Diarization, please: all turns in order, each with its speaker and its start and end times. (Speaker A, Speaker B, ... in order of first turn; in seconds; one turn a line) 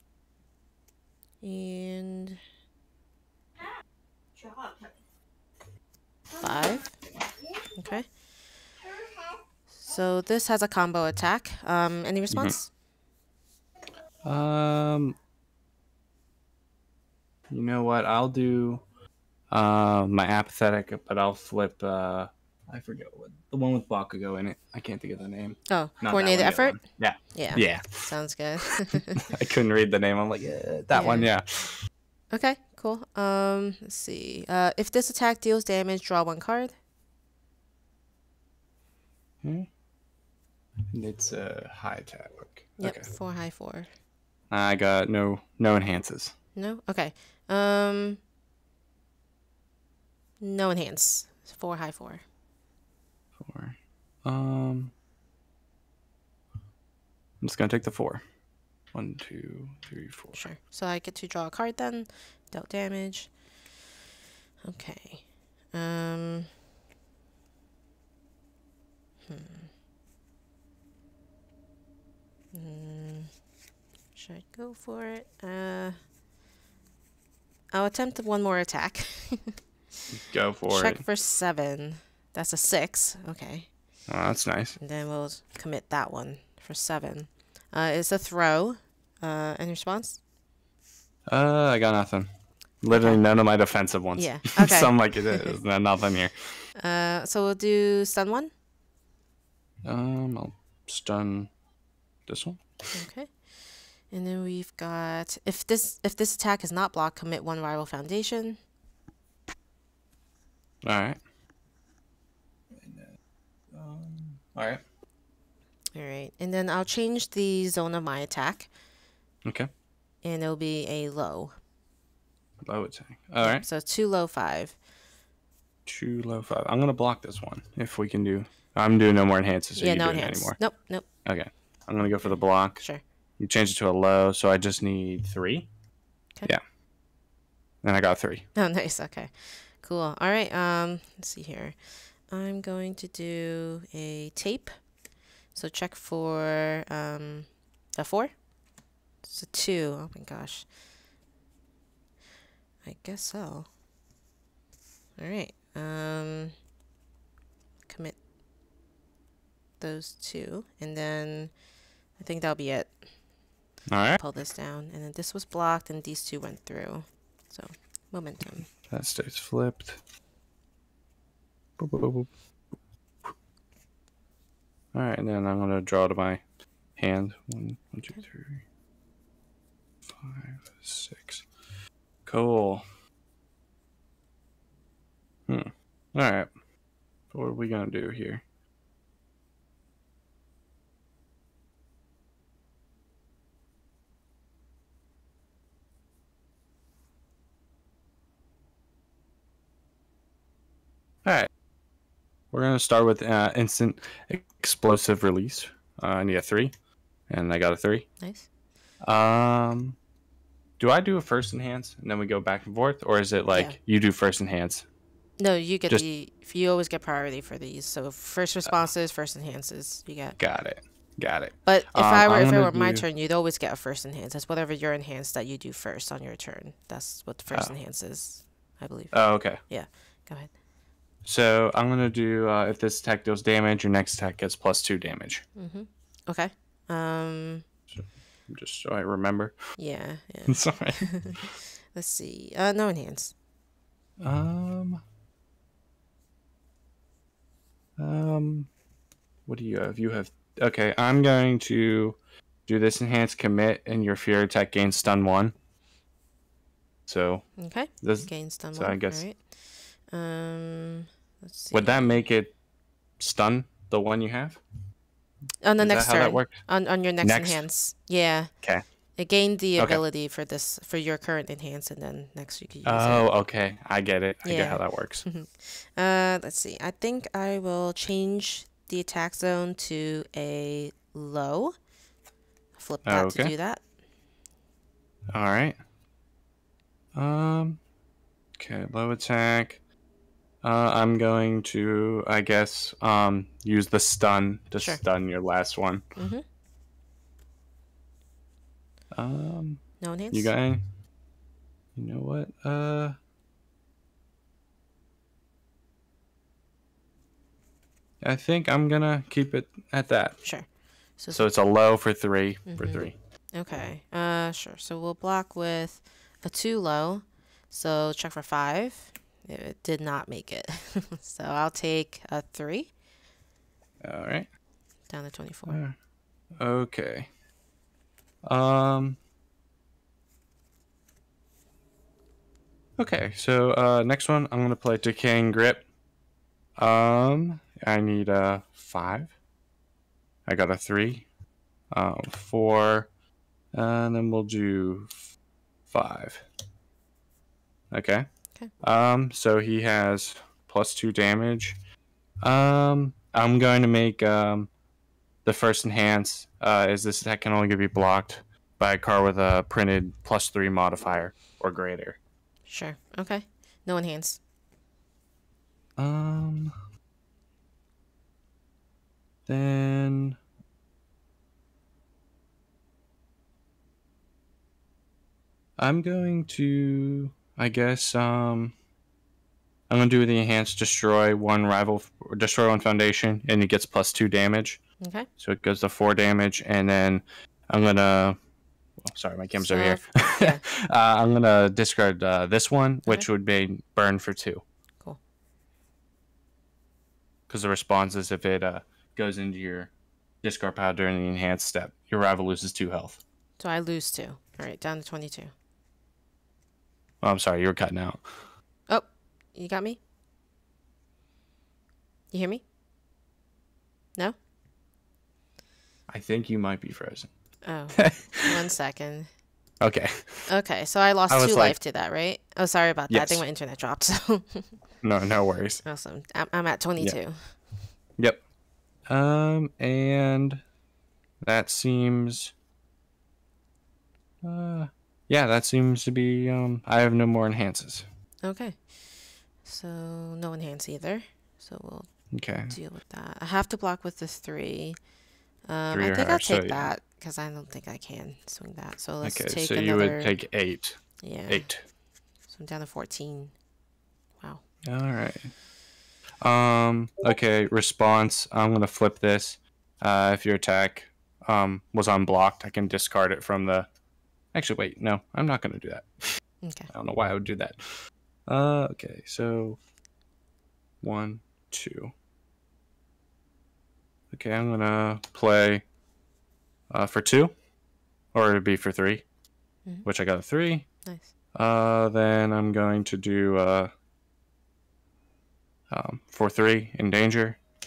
Speaker A: 1.4-2.4
Speaker A: 6.4-7.0
Speaker A: 7.8-8.1
Speaker A: 9.7-12.7
Speaker B: 14.2-15.2
Speaker B: 17.5-18.8
Speaker B: 19.5-28.1
Speaker A: 25.7-26.8
Speaker A: 27.3-29.2
Speaker B: 29.1-31.8
Speaker A: 30.9-31.3
Speaker A: 32.3-36.7
Speaker B: 39.4-39.7
Speaker B: 40.9-43.1
Speaker A: 42.8-43.9
Speaker B: 44.5-46.3
Speaker A: 46.5-48.2
Speaker A: 50.4-52.2
Speaker B: 53.4-54.9
Speaker B: 57.4-58.2
Speaker B: 58.9-60.5
Speaker A: 60.3-63.3
Speaker A: 64.6-66.5
Speaker A: 69.2-69.7
Speaker A: 72.5-73.3
Speaker A: 74.1-76.0
Speaker A: 77.7-79.5
Speaker B: 80.1-81.0
Speaker A: 80.7-83.7
Speaker B: 84.1-84.8
Speaker A: 84.8-90.2
Speaker B: 91.3-92.3
Speaker B: 92.8-96.5
Speaker A: 92.9-93.2
Speaker A: 94.2-95.5
Speaker A: 96.8-98.5
Speaker B: 99.8-101.5
Speaker B: 102.3-102.6
Speaker A: 102.9-103.3
Speaker A: 104.1-108.6
Speaker B: 110.8-111.2
Speaker B: 112.8-113.1
Speaker B: 113.7-114.8
Speaker A: 115.9-118.7
Speaker A: 120.2-121.5
Speaker B: 122.6-123.6
Speaker A: 123.4-124.8
Speaker B: 125.8-130.6
Speaker A: 129.8-131.1
Speaker B: 131.2-132.8
Speaker A: 132.2-133.0
Speaker B: 133.4-135.7
Speaker B: 137.8-138.4
Speaker A: 138.5-144.7
Speaker A: 145.5-148.3
Speaker A: 149.2-150.7
Speaker A: 152.8-153.7
Speaker A: 155.2-156.5
Speaker A: 157.9-158.2
Speaker A: 159.8-161.5
Speaker A: 162.2-163.0
Speaker B: 163.9-164.2
Speaker A: 164.2-168.7
Speaker B: 168.9-170.0
Speaker B: 171.8-172.3
Speaker B: 174.9-176.4
Speaker B: 177.0-178.6
Speaker B: 180.1-181.4
Speaker B: 182.2-182.8
Speaker B: 185.5-186.5
Speaker B: 187.3-188.4
Speaker B: 202.5-206.7
Speaker B: 207.3-208.1
Speaker A: 208.2-208.5
Speaker B: 209.0-210.0
Speaker B: 210.8-214.8
Speaker A: 215.4-220.4
Speaker B: 220.4-223.1
Speaker A: 221.6-230.5
Speaker B: 227.5-227.7
Speaker B: 229.1-229.6
Speaker B: 231.2-235.4
Speaker A: 235.6-237.7
Speaker B: 237.9-239.6
Speaker A: 239.8-243.3
Speaker B: 240.5-241.5
Speaker B: 244.2-245.0
Speaker B: 248.0-248.7
Speaker B: 249.4-255.5
Speaker B: 257.1-257.5
Speaker A: 257.6-259.5
Speaker B: 258.0-259.2
Speaker A: 260.1-262.1
Speaker B: 261.7-262.5
Speaker B: 263.2-264.6
Speaker A: 265.6-268.5
Speaker B: 265.8-266.6
Speaker B: 267.2-267.6
Speaker A: 269.2-273.3
Speaker B: 269.8-270.0
Speaker B: 272.8-275.2
Speaker A: 274.4-281.7
Speaker A: 282.8-283.8
Speaker B: 283.0-283.5
Speaker B: 285.3-285.8
Speaker B: 287.1-287.8
Speaker B: 288.6-289.8
Speaker B: 290.6-296.0
Speaker A: 296.1-296.4
Speaker B: 299.1-300.8
Speaker A: 300.0-300.5
Speaker B: 301.9-303.1
Speaker B: 308.2-310.4
Speaker A: 311.2-311.5
Speaker B: 311.3-313.1
Speaker A: 312.6-322.9
Speaker B: 324.0-324.5
Speaker A: 325.1-325.8
Speaker B: 325.7-325.9
Speaker B: 326.6-327.3
Speaker B: 328.4-329.2
Speaker B: 333.0-335.8
Speaker B: 336.8-339.3
Speaker B: 340.4-341.3
Speaker B: 341.9-343.1
Speaker B: 343.7-345.2
Speaker B: 345.9-346.4
Speaker B: 347.9-348.3
Speaker B: 348.8-351.8
Speaker B: 352.4-354.7
Speaker B: 355.4-362.2
Speaker A: 362.7-364.4
Speaker B: 366.0-366.7
Speaker B: 369.5-370.4
Speaker B: 375.8-378.7
Speaker B: 379.9-384.8
Speaker A: 385.0-385.3
Speaker B: 385.4-388.4
Speaker B: 389.0-394.6
Speaker A: 389.6-390.6
Speaker B: 397.5-399.9
Speaker B: 400.4-403.2
Speaker A: 403.6-405.5
Speaker B: 407.2-408.2
Speaker A: 408.9-410.0
Speaker A: 412.3-412.6
Speaker B: 416.1-417.3
Speaker A: 417.6-419.3
Speaker B: 418.0-418.5
Speaker B: 419.8-420.4
Speaker A: 420.5-424.7
Speaker B: 421.3-421.8
Speaker B: 423.1-423.4
Speaker B: 425.0-425.8
Speaker A: 425.8-427.6
Speaker B: 429.1-430.6
Speaker B: 431.4-432.5
Speaker B: 434.4-438.0
Speaker A: 438.4-438.9
Speaker A: 439.6-445.0
Speaker B: 442.3-442.8
Speaker A: 445.6-450.3
Speaker B: 445.9-446.9
Speaker B: 449.2-451.8
Speaker A: 451.2-451.7
Speaker A: 452.5-453.5
Speaker B: 454.9-455.5
Speaker B: 456.4-463.9
Speaker B: 464.5-466.1
Speaker A: 466.6-466.9
Speaker B: 466.9-467.8
Speaker B: 468.5-469.8
Speaker B: 471.0-472.1
Speaker B: 474.3-475.8
Speaker B: 476.9-477.5
Speaker B: 478.3-479.2
Speaker B: 480.0-480.9
Speaker A: 481.0-481.3
Speaker B: 481.5-483.9
Speaker B: 485.9-487.6